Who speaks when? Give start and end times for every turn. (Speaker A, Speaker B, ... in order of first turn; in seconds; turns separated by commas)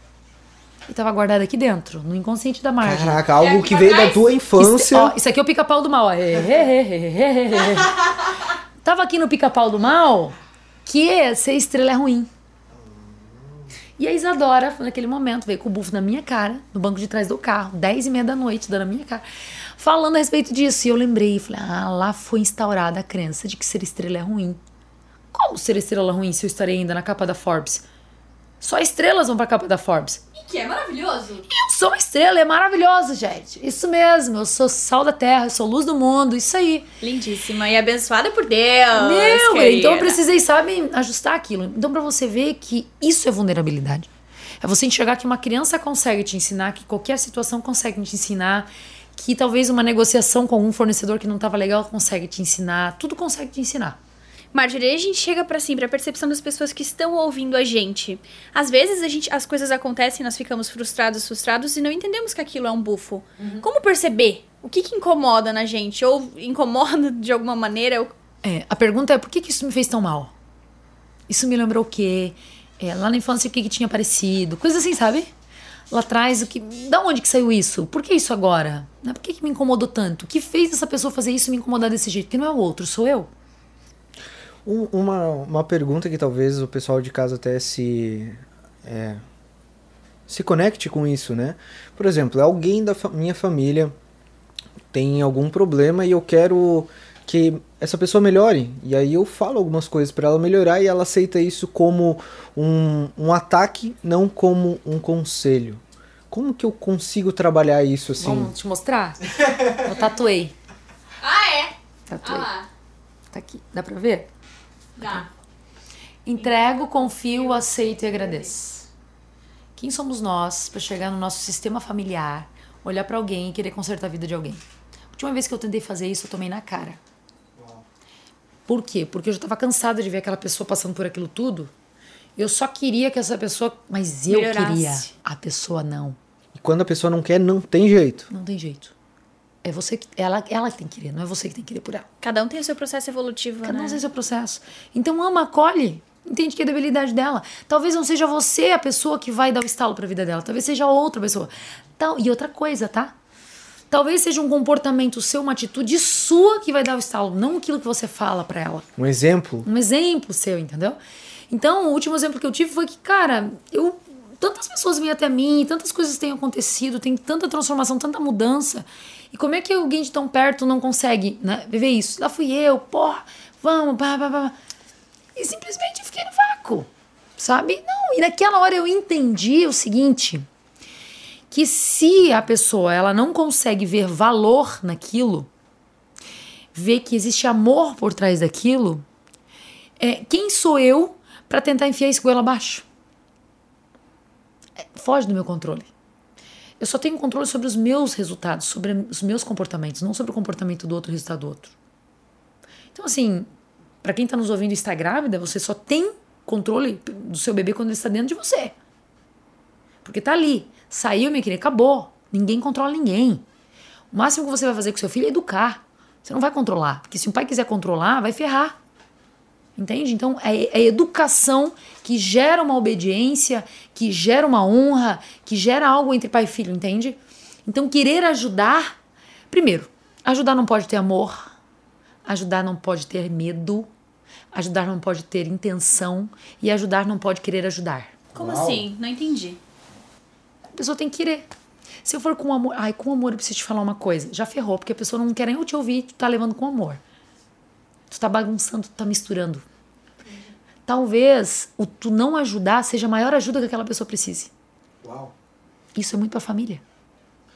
Speaker A: 0.9-3.2, Speaker B: 2.8-5.2, Speaker C: 3.4-4.3, Speaker A: 4.5-8.0, Speaker A: 8.8-12.3, Speaker B: 12.8-13.5, Speaker A: 14.0-19.2, Speaker A: 19.8-24.6, Speaker A: 25.3-27.8, Speaker A: 28.6-30.2, Speaker C: 30.4-31.4, Speaker A: 31.5-36.9, Speaker C: 37.0-40.2, Speaker A: 38.9-44.1, Speaker A: 44.6-54.0, Speaker C: 54.5-68.1, Speaker A: 68.4-70.3, Speaker A: 71.3-75.3, Speaker A: 75.9-83.3, Speaker B: 84.6-89.2, Speaker B: 90.3-93.9, Speaker B: 94.9-108.5, Speaker A: 108.2-109.2, Speaker A: 109.8-110.5, Speaker C: 111.2-112.7, Speaker A: 112.1-112.5, Speaker A: 113.3-114.3, Speaker C: 115.0-115.3, Speaker A: 116.2-118.8, Speaker C: 116.4-117.3, Speaker A: 119.8-124.6, Speaker A: 125.1-127.0, Speaker B: 127.5-127.8, Speaker A: 128.7-131.7, Speaker A: 132.4-136.2, Speaker C: 134.3-135.1, Speaker B: 136.5-138.3, Speaker A: 138.3-138.9, Speaker A: 139.6-142.1, Speaker C: 142.2-144.0, Speaker A: 143.6-153.1, Speaker A: 153.9-158.9, Speaker B: 159.0-159.7, Speaker A: 159.6-161.0, Speaker A: 161.5-174.5, Speaker A: 175.3-180.4, Speaker A: 181.5-185.5, Speaker A: 186.7-189.0, Speaker A: 190.0-192.8, Speaker A: 194.8-195.9, Speaker A: 196.8-201.7, Speaker A: 202.9-203.5, Speaker A: 204.0-208.7, Speaker A: 210.0-213.4, Speaker A: 214.1-218.8, Speaker A: 219.8-228.9, Speaker A: 229.5-231.5, Speaker A: 232.2-233.9, Speaker A: 234.5-238.1, Speaker B: 238.3-238.9, Speaker C: 238.3-239.6, Speaker A: 240.7-241.4, Speaker A: 242.0-247.0, Speaker A: 248.1-249.6, Speaker A: 250.8-254.5, Speaker B: 255.0-255.3, Speaker A: 255.9-256.8